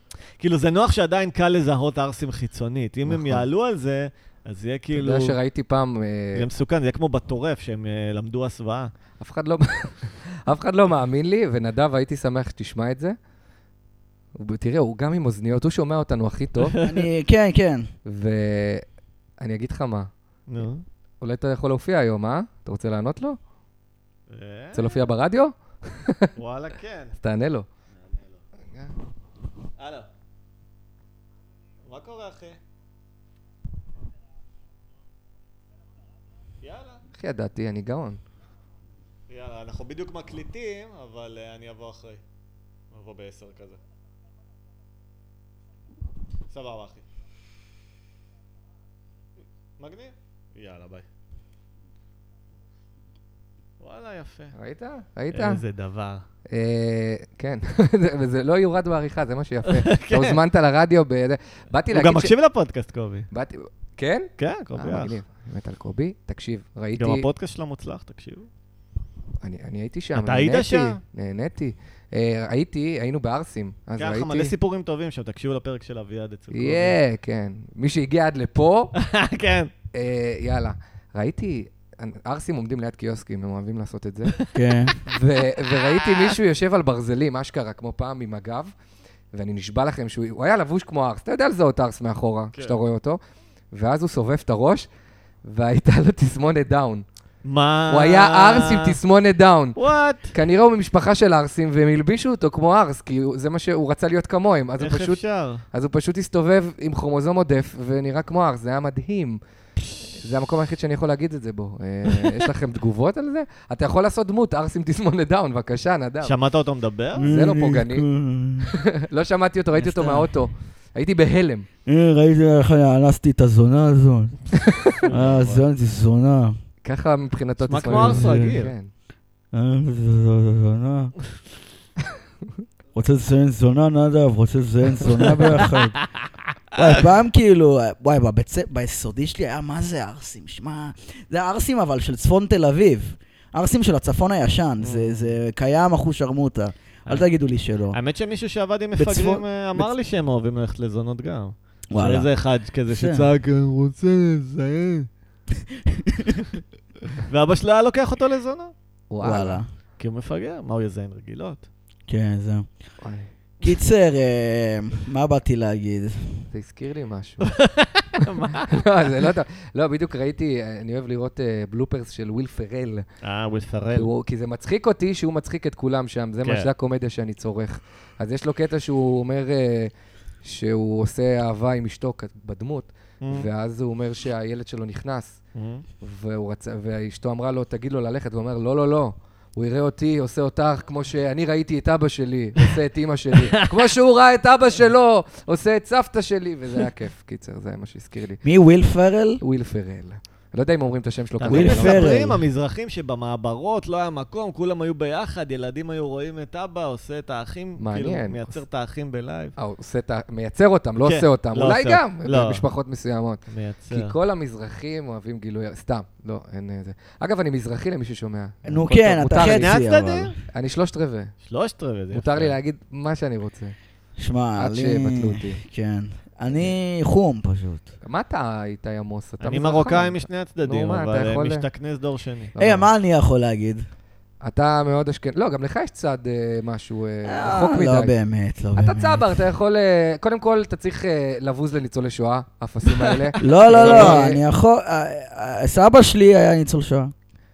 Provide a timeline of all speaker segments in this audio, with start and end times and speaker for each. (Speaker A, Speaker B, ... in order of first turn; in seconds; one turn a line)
Speaker A: 0.4-5.3
Speaker B: 3.0-3.4
Speaker B: 4.9-6.5
Speaker A: 6.3-8.9
Speaker B: 9.2-13.2
Speaker B: 14.3-16.8
Speaker C: 16.8-17.9
Speaker B: 18.1-18.8
Speaker B: 19.4-20.1
Speaker A: 20.5-20.8
Speaker B: 21.2-23.4
Speaker A: 24.3-25.0
Speaker B: 24.7-26.3
Speaker A: 26.4-27.1
Speaker B: 27.2-27.6
Speaker A: 28.0-28.4
Speaker A: 29.8-30.1
Speaker A: 31.9-32.6
Speaker A: 36.6-37.0
Speaker B: 37.1-38.2
Speaker A: 39.3-42.2
Speaker A: 42.9-43.8
Speaker A: 46.5-47.0
Speaker A: 49.8-51.0
Speaker A: 53.8-54.5
Speaker B: 54.5-55.6
Speaker A: 55.3-56.2
Speaker B: 56.5-62.3
Speaker A: 59.6-60.4
Speaker A: 61.9-63.3
Speaker B: 63.3-67.3
Speaker A: 64.4-65.1
Speaker A: 67.0-68.5
Speaker B: 69.4-74.5
Speaker A: 70.1-71.0
Speaker A: 74.0-77.0
Speaker B: 76.5-78.9
Speaker A: 78.9-79.7
Speaker B: 79.9-84.3
Speaker C: 84.5-85.0
Speaker B: 85.1-88.7
Speaker A: 85.9-86.3
Speaker B: 89.3-93.2
Speaker B: 93.7-94.9
Speaker B: 95.4-97.0
Speaker A: 97.4-99.0
Speaker B: 97.9-99.8
Speaker A: 99.8-100.3
Speaker B: 100.3-105.2
Speaker A: 104.8-105.6
Speaker B: 105.7-109.4
Speaker B: 110.2-116.4
Speaker A: 116.2-117.3
Speaker C: 117.2-118.7
Speaker B: 117.2-118.1
Speaker B: 118.6-121.7
Speaker C: 119.7-120.4
Speaker C: 121.9-126.5
Speaker B: 124.7-125.0
Speaker A: 125.0-125.6
Speaker B: 126.8-128.9
Speaker A: 127.6-128.7
Speaker C: 127.8-128.5
Speaker C: 129.5-131.1
Speaker C: 132.9-136.0
Speaker A: 135.6-136.2
Speaker C: 136.7-148.0
Speaker A: 144.8-145.4
Speaker A: 147.9-155.1
Speaker C: 148.9-149.9
Speaker C: 151.9-152.3
Speaker C: 152.9-153.2
Speaker C: 155.7-156.4
Speaker A: 157.2-158.7
Speaker B: 159.1-159.6
Speaker C: 159.2-159.7
Speaker A: 160.0-161.7
Speaker C: 162.1-162.7
Speaker B: 163.0-163.3
Speaker C: 163.6-166.4
Speaker B: 166.5-167.5
Speaker A: 167.4-169.1
Speaker B: 168.7-173.0
Speaker A: 173.2-174.1
Speaker B: 173.9-179.9
Speaker B: 180.4-185.4
Speaker A: 185.6-185.8
Speaker B: 186.0-198.4
Speaker A: 193.4-193.9
Speaker C: 198.4-199.4
Speaker B: 199.4-202.2
Speaker A: 201.4-209.5
Speaker C: 201.5-202.4
Speaker B: 207.8-208.6
Speaker B: 209.6-219.8
Speaker A: 211.0-212.6
Speaker A: 213.5-214.1
Speaker C: 218.6-220.4
Speaker A: 219.3-220.3
Speaker B: 220.5-221.3
Speaker A: 221.4-222.5
Speaker B: 222.1-223.7
Speaker C: 224.2-227.9
Speaker B: 224.6-225.6
Speaker B: 228.0-231.6
Speaker A: 229.4-232.5
Speaker B: 232.6-232.8
Speaker C: 232.6-233.8
Speaker B: 234.4-238.1
Speaker C: 237.2-239.3
Speaker B: 238.8-244.4
Speaker C: 243.4-247.1
Speaker A: 243.7-244.2